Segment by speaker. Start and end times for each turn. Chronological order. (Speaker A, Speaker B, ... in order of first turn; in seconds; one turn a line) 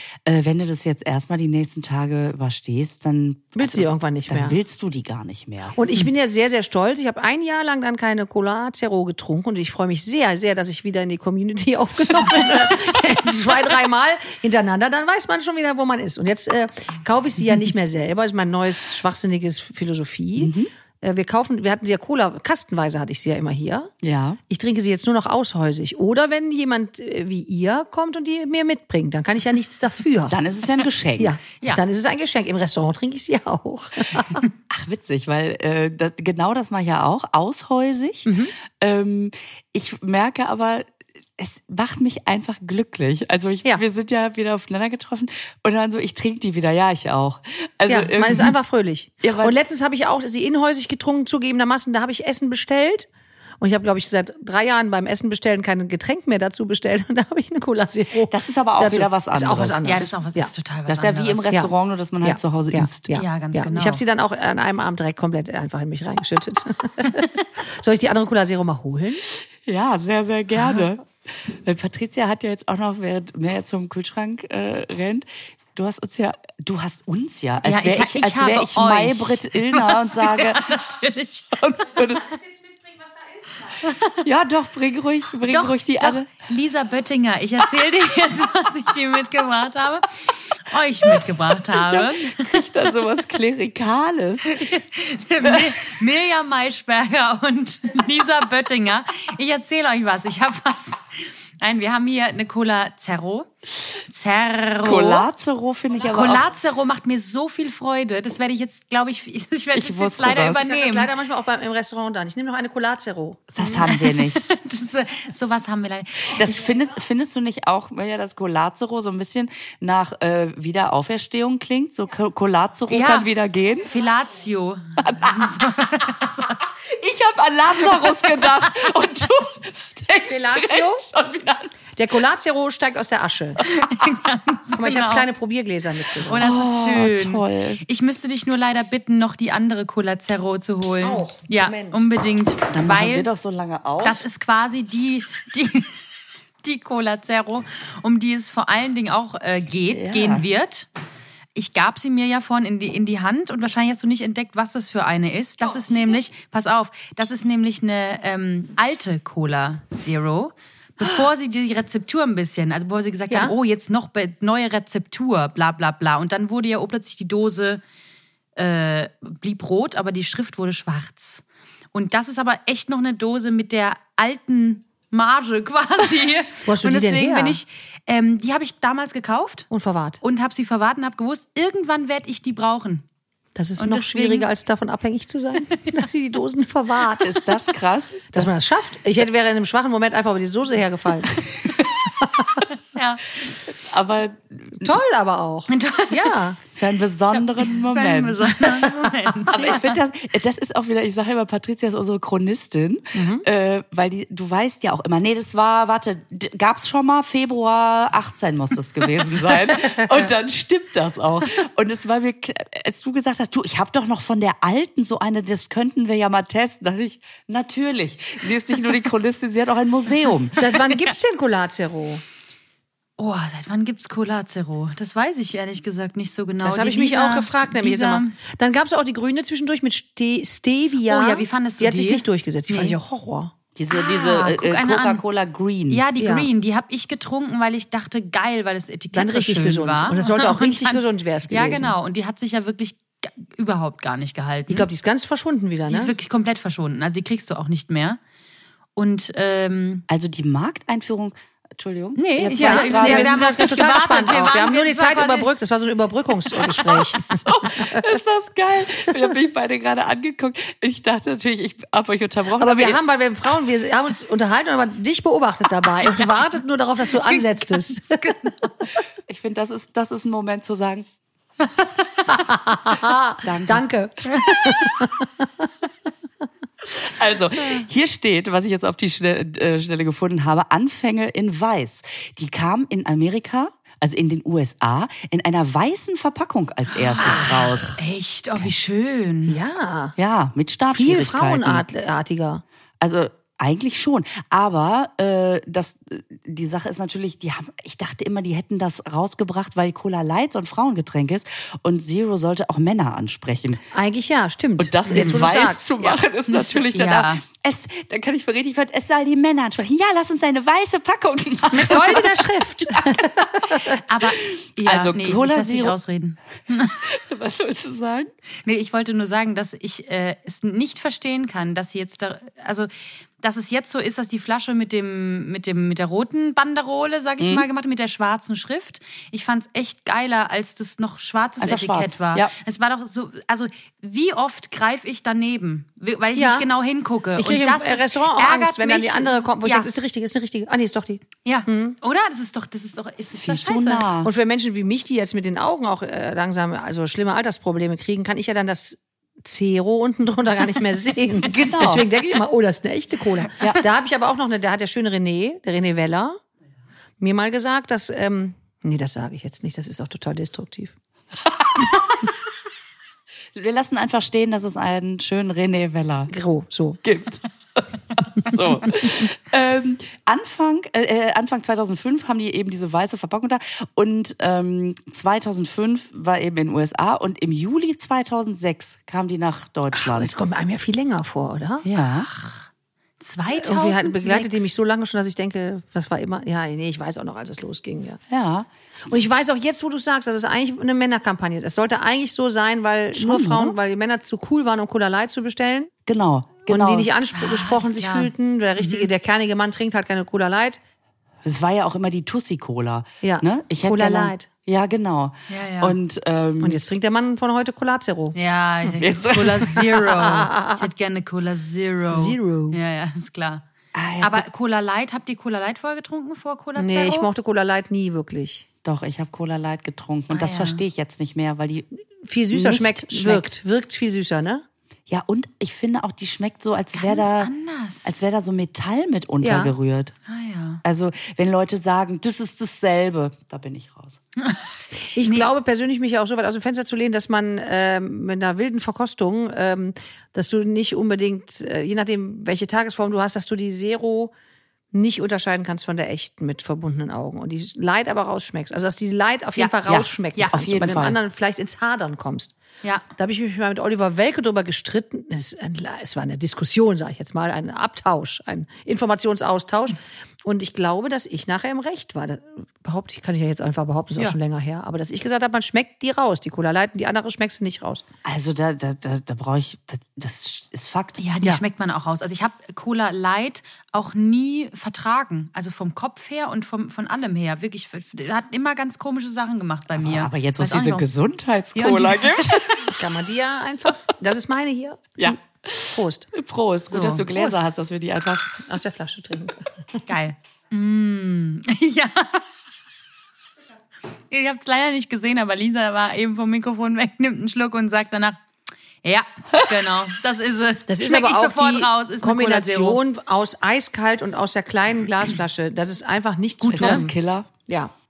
Speaker A: 0.2-5.8
Speaker B: 3.5-4.6
Speaker B: 5.8-23.9
Speaker A: 20.4-20.7
Speaker A: 24.0-24.4
Speaker B: 24.5-30.4
Speaker A: 30.3-31.4
Speaker B: 31.2-34.4
Speaker A: 34.7-48.5
Speaker B: 38.3-38.5
Speaker B: 47.9-53.1
Speaker A: 49.2-49.5
Speaker B: 53.6-60.5
Speaker A: 58.3-60.2
Speaker C: 59.9-61.5
Speaker A: 60.9-63.1
Speaker B: 62.2-69.3
Speaker C: 63.1-64.0
Speaker A: 69.6-80.8
Speaker C: 70.6-70.8
Speaker C: 77.6-81.7
Speaker A: 81.5-82.4
Speaker B: 82.2-83.7
Speaker C: 83.8-84.2
Speaker A: 84.2-86.3
Speaker C: 85.5-92.7
Speaker A: 91.1-94.6
Speaker C: 94.5-105.3
Speaker A: 95.4-95.9
Speaker A: 104.8-106.5
Speaker C: 106.0-111.1
Speaker A: 109.8-110.7
Speaker B: 110.4-113.5
Speaker A: 113.5-114.4
Speaker C: 113.6-116.5
Speaker A: 116.3-123.9
Speaker C: 122.9-123.3
Speaker C: 123.8-126.6
Speaker A: 125.0-125.6
Speaker A: 126.8-131.7
Speaker B: 130.3-131.0
Speaker B: 132.0-133.6
Speaker C: 133.6-135.3
Speaker B: 134.7-136.5
Speaker C: 136.2-143.3
Speaker A: 136.4-137.8
Speaker B: 141.0-142.1
Speaker A: 142.7-144.2
Speaker C: 144.0-146.0
Speaker C: 146.6-150.9
Speaker A: 149.9-150.5
Speaker C: 151.6-167.8
Speaker B: 163.3-163.6
Speaker C: 168.6-171.4
Speaker C: 171.9-179.7
Speaker B: 176.7-177.6
Speaker B: 179.7-180.2
Speaker C: 180.2-183.1
Speaker B: 183.6-187.4
Speaker C: 183.8-184.5
Speaker A: 187.2-188.6
Speaker B: 188.3-191.4
Speaker A: 191.5-192.1
Speaker B: 192.2-192.6
Speaker C: 192.9-193.3
Speaker A: 193.7-194.9
Speaker B: 194.8-196.6
Speaker C: 195.7-196.4
Speaker A: 196.7-198.6
Speaker C: 197.3-200.0
Speaker A: 199.5-220.6
Speaker B: 203.1-203.4
Speaker B: 220.6-222.2
Speaker C: 223.2-228.3
Speaker B: 226.6-233.5
Speaker C: 231.1-233.0
Speaker A: 233.8-236.0
Speaker C: 233.9-235.2
Speaker C: 235.9-244.9
Speaker B: 236.2-236.5
Speaker B: 239.1-241.9
Speaker B: 244.7-246.1
Speaker C: 245.9-248.2
Speaker C: 249.0-250.1
Speaker A: 250.1-253.8
Speaker C: 252.2-255.5
Speaker B: 252.6-258.0
Speaker A: 256.7-263.0
Speaker B: 262.6-268.4
Speaker C: 267.3-268.6
Speaker A: 269.3-271.1
Speaker B: 272.3-275.4
Speaker A: 273.4-273.9
Speaker A: 276.9-288.0
Speaker C: 286.9-289.6
Speaker B: 289.5-290.1
Speaker A: 290.2-291.9
Speaker B: 290.9-292.6
Speaker A: 293.0-303.8
Speaker B: 303.9-306.2
Speaker A: 304.8-313.2
Speaker C: 305.1-305.5
Speaker C: 306.5-307.4
Speaker B: 311.7-314.0
Speaker C: 314.1-317.0
Speaker A: 314.2-316.0
Speaker A: 317.0-318.3
Speaker C: 318.6-339.9
Speaker A: 327.4-327.7
Speaker A: 331.6-332.5
Speaker B: 336.4-336.7
Speaker B: 337.4-342.0
Speaker C: 341.4-344.1
Speaker A: 343.4-344.3
Speaker B: 344.2-356.4
Speaker A: 351.4-352.1
Speaker B: 357.2-360.9
Speaker A: 361.4-362.3
Speaker A: 363.6-366.3
Speaker B: 366.3-367.0
Speaker A: 367.0-380.3
Speaker B: 379.9-381.9
Speaker A: 381.8-382.3
Speaker C: 382.3-382.6
Speaker C: 383.2-384.7
Speaker B: 383.5-388.2
Speaker A: 388.3-389.2
Speaker B: 389.1-395.9
Speaker A: 393.1-393.8
Speaker A: 396.1-397.1
Speaker B: 396.7-400.8
Speaker C: 397.3-399.1
Speaker A: 401.4-406.8
Speaker B: 403.2-404.5
Speaker C: 405.5-406.0
Speaker B: 406.6-408.4
Speaker C: 408.4-413.6
Speaker A: 409.0-409.8
Speaker B: 409.8-410.8
Speaker B: 412.1-412.8
Speaker A: 413.9-414.4
Speaker C: 414.2-417.3
Speaker B: 416.8-418.6
Speaker A: 418.8-421.9
Speaker C: 420.3-420.8
Speaker B: 422.2-424.6
Speaker A: 422.5-423.5
Speaker A: 425.1-427.5
Speaker C: 426.9-428.2
Speaker A: 428.0-430.1
Speaker B: 429.4-429.7
Speaker C: 430.3-430.8
Speaker A: 430.8-434.2
Speaker C: 434.4-434.7
Speaker B: 435.1-444.3
Speaker C: 435.2-435.5
Speaker B: 444.9-452.5
Speaker A: 449.9-451.2
Speaker C: 450.4-450.6
Speaker B: 453.2-468.0
Speaker A: 468.2-471.2
Speaker C: 471.2-481.1
Speaker A: 479.9-483.0
Speaker C: 481.8-482.6
Speaker B: 483.0-486.3
Speaker A: 485.2-488.6
Speaker C: 486.9-487.6
Speaker B: 488.7-490.0
Speaker C: 490.1-492.5
Speaker C: 494.3-498.4
Speaker C: 499.0-503.0
Speaker B: 500.9-507.1
Speaker C: 506.6-507.1
Speaker A: 506.7-507.5